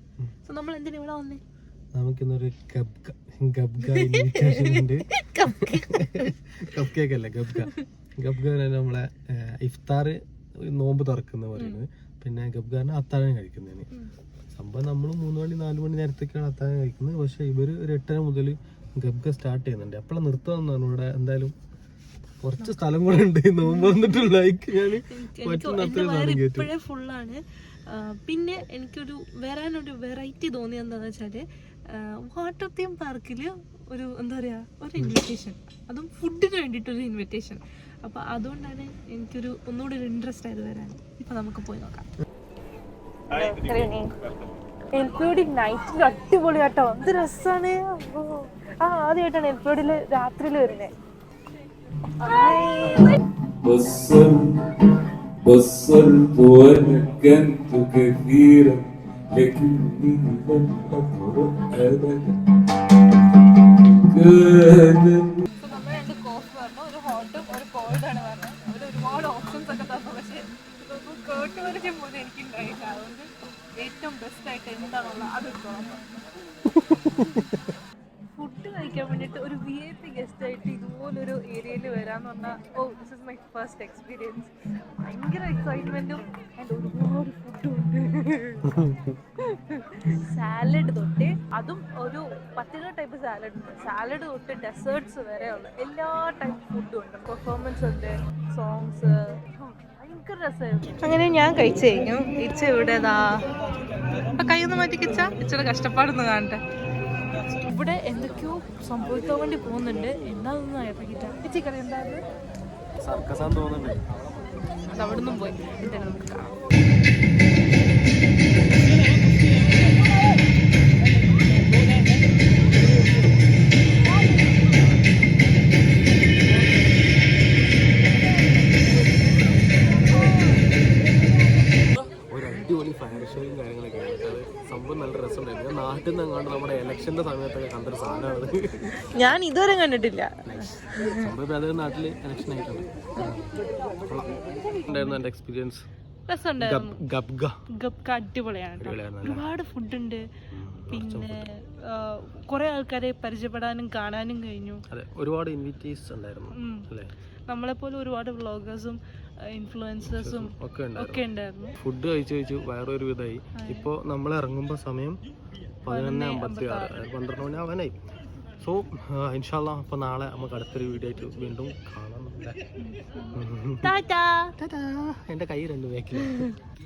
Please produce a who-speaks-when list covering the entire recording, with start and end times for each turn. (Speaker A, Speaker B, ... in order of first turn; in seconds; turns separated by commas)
Speaker A: 0.4-1.4, Speaker B: 1.9-13.9, Speaker A: 3.8-6.3, Speaker A: 11.6-11.8, Speaker B: 14.5-21.5, Speaker B: 22.4-26.7, Speaker A: 23.6-24.2, Speaker A: 25.1-42.0, Speaker A: 43.3-44.1, Speaker A: 44.9-50.9, Speaker A: 52.2-53.2, Speaker C: 53.6-62.4, Speaker C: 63.6-65.4, Speaker A: 65.6-76.1, Speaker B: 76.7-77.7, Speaker A: 78.4-88.7, Speaker B: 88.6-89.2, Speaker A: 89.5-103.4, Speaker A: 104.3-106.6, Speaker A: 107.7-112.2, Speaker B: 113.0-114.0, Speaker A: 114.9-116.5, Speaker B: 132.3-138.9, Speaker A: 139.0-141.3, Speaker B: 140.4-143.5, Speaker B: 144.0-145.8, Speaker A: 144.7-145.2, Speaker A: 146.3-147.0, Speaker B: 146.6-147.5, Speaker A: 147.8-150.2, Speaker B: 148.8-149.5, Speaker B: 150.5-151.4, Speaker A: 150.9-154.8, Speaker B: 154.9-157.1, Speaker A: 156.5-156.8, Speaker A: 157.5-159.0, Speaker A: 159.5-161.7, Speaker B: 160.1-161.2, Speaker B: 161.8-165.2, Speaker A: 163.6-163.9, Speaker B: 165.8-167.9, Speaker A: 165.9-167.0, Speaker B: 168.6-172.6, Speaker A: 172.8-174.5, Speaker B: 173.3-173.9, Speaker B: 174.6-176.5, Speaker A: 176.2-176.5